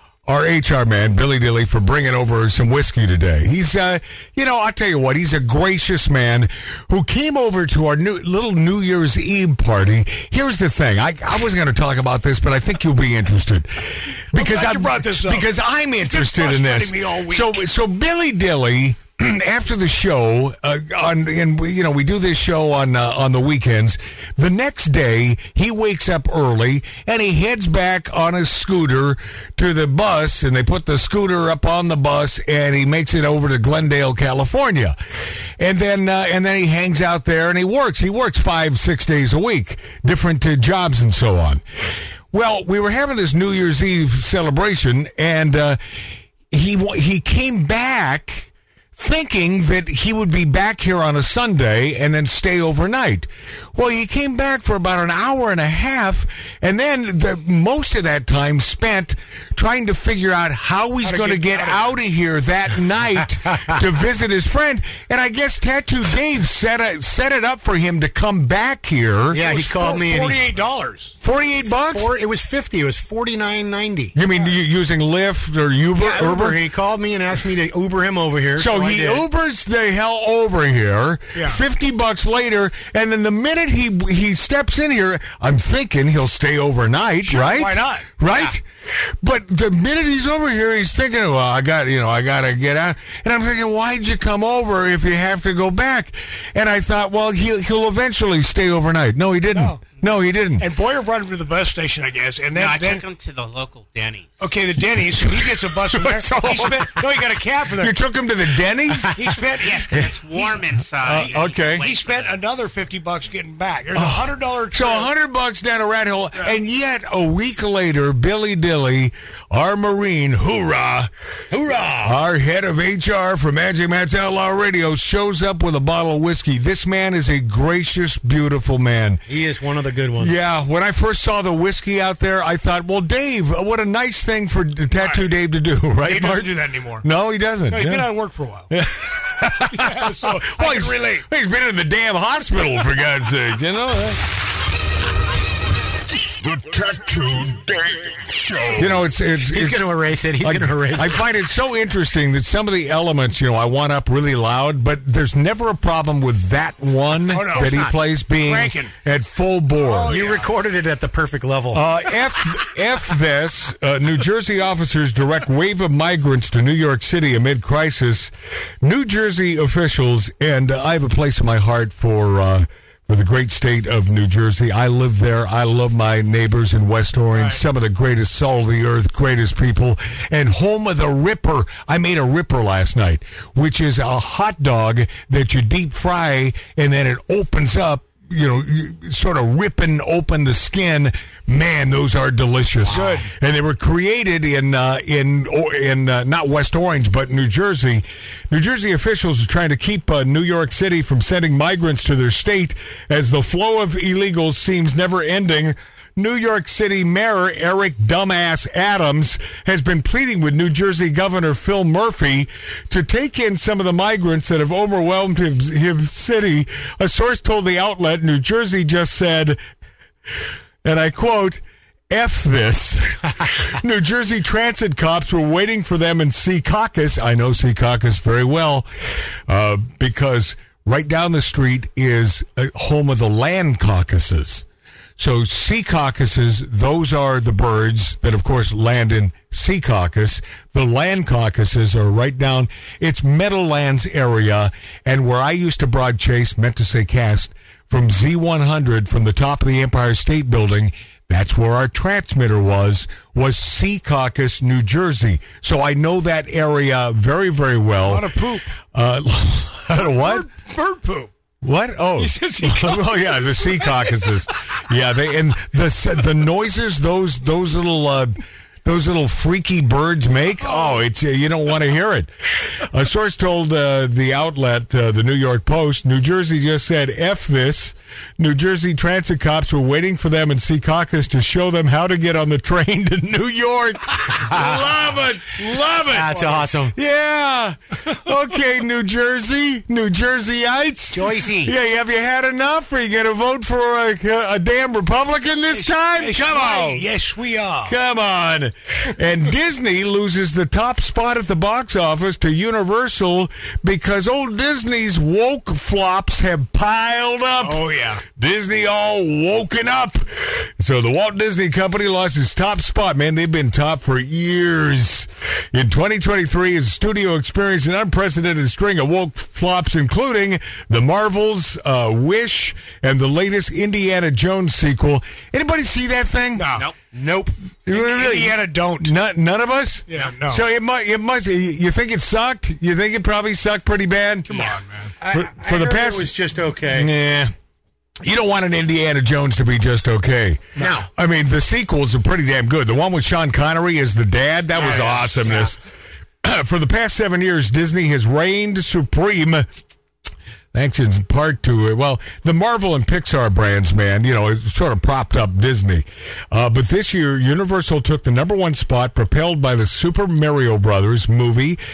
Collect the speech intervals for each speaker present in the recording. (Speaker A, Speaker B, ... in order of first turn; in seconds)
Speaker A: 0.2-35.0, 35.6-41.6, 42.3-69.4, 71.2-72.1, 74.1-76.6, 78.5-100.7, 105.2-107.2, 107.7-109.2, 109.9-110.4, 111.0-111.9, 113.9-121.1, 122.0-129.2, 130.2-138.1, 138.7-144.2, 148.7-160.2, 161.7-219.6, 220.8-234.6, 235.2-258.3, 258.8-260.5, 261.6-297.1, 297.8-326.8, 327.9-334.6, 335.3-336.3, 336.9-337.5, 338.2-345.8, 346.4-349.7, 350.7-361.8
Speaker B: 14.3-17.6, 61.0-62.0, 69.3-71.2, 81.3-81.6, 87.2-88.2, 99.5-99.8, 100.6-103.1, 104.4-108.0, 109.1-110.5, 111.7-115.1, 134.9-135.3, 136.0-137.1, 137.7-138.7, 139.6-141.2, 157.2-158.9, 159.8-160.5, 177.3-177.6, 192.9-193.3, 258.0-258.8, 259.9-261.3, 262.1-264.4, 270.6-271.0, 295.7-298.0, 307.6-308.2, 326.5-326.9, 327.9-329.1, 330.1-330.6, 334.4-335.1, 344.7-345.7
Speaker C: 69.3-70.5, 71.9-74.1, 76.0-79.2, 121.5-122.1, 129.3-130.4, 149.4-151.2, 157.4-157.9, 160.0-161.9, 192.8-193.2, 284.4-284.8, 286.1-286.9, 291.1-291.7, 326.8-327.5, 335.2-337.1, 340.8-341.1
Speaker D: 102.5-104.5, 109.6-112.3
Speaker E: 146.4-148.7